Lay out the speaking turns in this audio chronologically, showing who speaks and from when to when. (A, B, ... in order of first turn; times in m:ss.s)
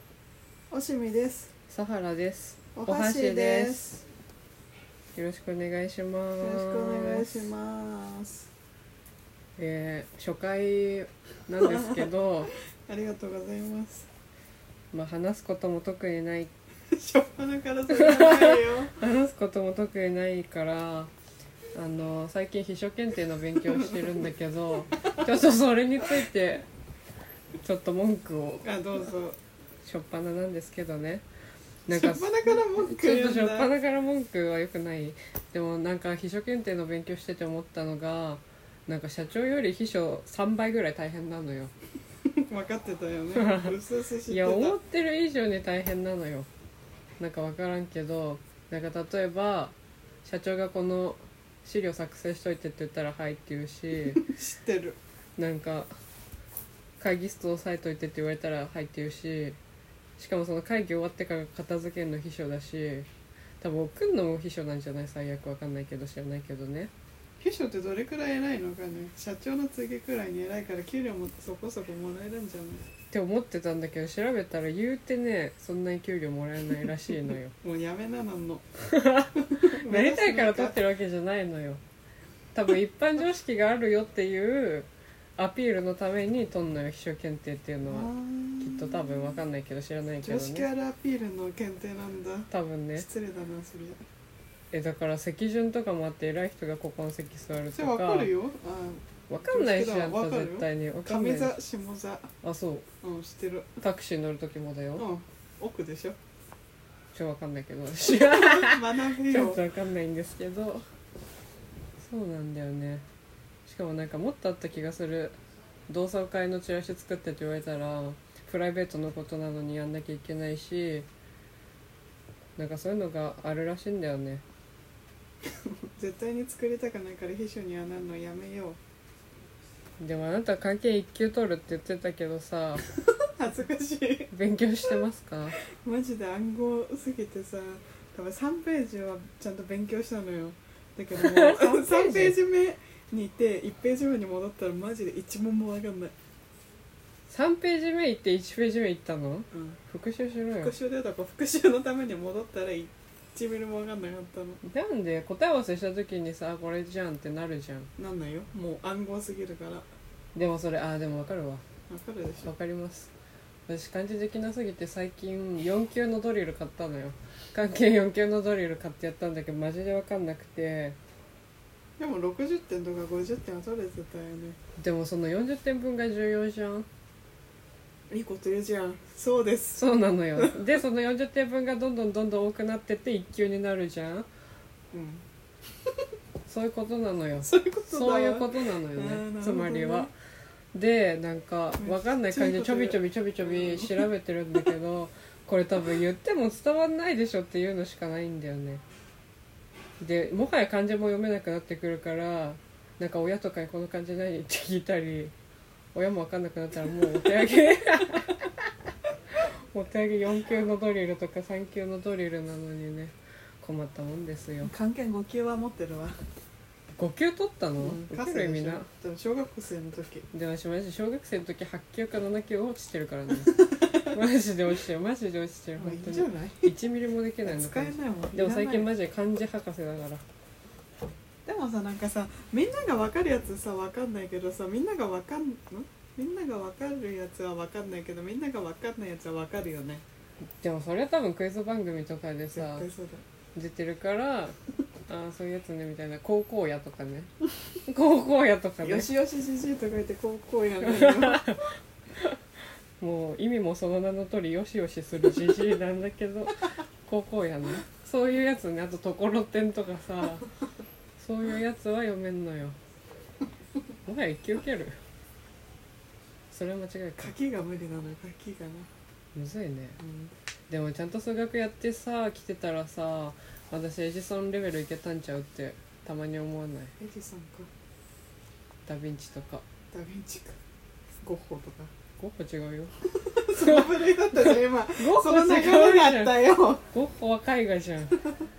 0:00.7-0:01.5 A
0:01.7-0:04.0 B
0:02.8-0:04.0 A
0:05.1-0:07.3 B
0:06.4-0:08.5 A
0:09.6-0:12.5 B
0:11.6-0:12.1 A
0:12.9-0:14.1 A
0:14.9-0:16.5 B
0:16.9-0:19.0 A
0:17.9-0:21.1 B
0:21.7-0:26.7 B
0:27.6-0:28.8 B
0:28.6-0:29.4 A
0:29.8-0:31.2 B
0:31.9-0:41.7 B
0:31.9-0:33.7 A
0:42.3-0:44.8 A
0:43.3-0:43.8 B
0:44.3-0:46.5 B
0:47.2-0:54.3 B
0:54.2-0:55.0 A
0:55.4-0:55.9 B
0:57.0-0:59.6 B
1:00.2-1:03.1 B
1:03.6-1:06.9 B
1:07.4-1:12.8 A
1:13.1-1:17.5 B
1:17.6-1:18.6 A
1:18.9-1:21.8 B
1:19.4-1:20.8 A
1:22.5-1:28.1 B
1:27.9-1:29.4 A
1:28.6-1:30.7 B
1:30.2-1:34.0 A
1:32.5-1:33.1 B
1:34.7-1:38.3 B
1:37.7-1:42.3 A
1:39.3-1:41.6 B
1:42.4-1:42.8 B
1:43.0-1:43.7 A
1:43.8-1:45.1 B
1:45.0-1:46.2 A
1:47.1-1:50.8 B
1:48.1-1:49.6 A
1:52.0-1:53.0 B
1:53.7-1:55.4 B
1:55.9-2:01.1 B
2:02.6-2:04.4 B
2:06.0-2:08.8 A
2:10.0-2:12.8 B
2:13.4-2:14.3 A
2:14.3-2:15.6 B
2:15.8-2:26.1 A
2:21.2-2:22.4 B
2:27.3-2:30.7 B
2:29.5-2:29.8 A
2:30.6-2:34.6 A
2:34.6-2:37.9 B
2:38.0-2:39.9 A
2:40.4-2:41.6 B
2:41.9-2:42.5 A
2:42.4-2:43.1 B
2:43.7-2:51.0 B
2:52.0-2:54.6 A
2:54.8-2:56.9 B
2:58.1-2:59.8 A
2:59.8-3:04.3 B
3:04.9-3:05.2 A
3:06.5-3:10.1 B
3:07.4-3:10.1 A
3:10.7-3:18.8 B
3:11.8-3:14.0 A
3:20.0-3:25.3 B
3:25.9-3:28.5 B
3:29.4-3:34.7 B
3:34.6-3:36.2 A
3:37.0-3:38.9 B
3:37.8-3:40.2 A
3:40.3-3:50.2 B
3:43.6-3:44.0 A
3:45.8-3:46.7 A
3:47.4-3:48.9 A
3:51.5-4:00.0 A
4:00.6-4:02.9 B
4:02.6-4:03.2 A
4:03.6-4:04.6 B
4:05.1-4:07.3 B
4:07.9-4:09.1 B
4:08.8-4:11.5 A
4:10.8-4:11.6 B
4:13.0-4:20.5 B
4:21.2-4:22.8 B
4:24.1-4:25.0 B
4:26.5-4:27.3 B
4:27.2-4:28.9 A
4:29.4-4:30.0 B
4:30.0-4:30.3 A
4:30.7-4:36.9 B
4:37.0-4:37.7 A
4:38.9-4:39.6 B
4:39.9-4:40.6 A
4:41.2-4:41.9 A
4:42.2-4:42.9 B
4:43.1-4:46.8 A
4:43.6-4:48.2 B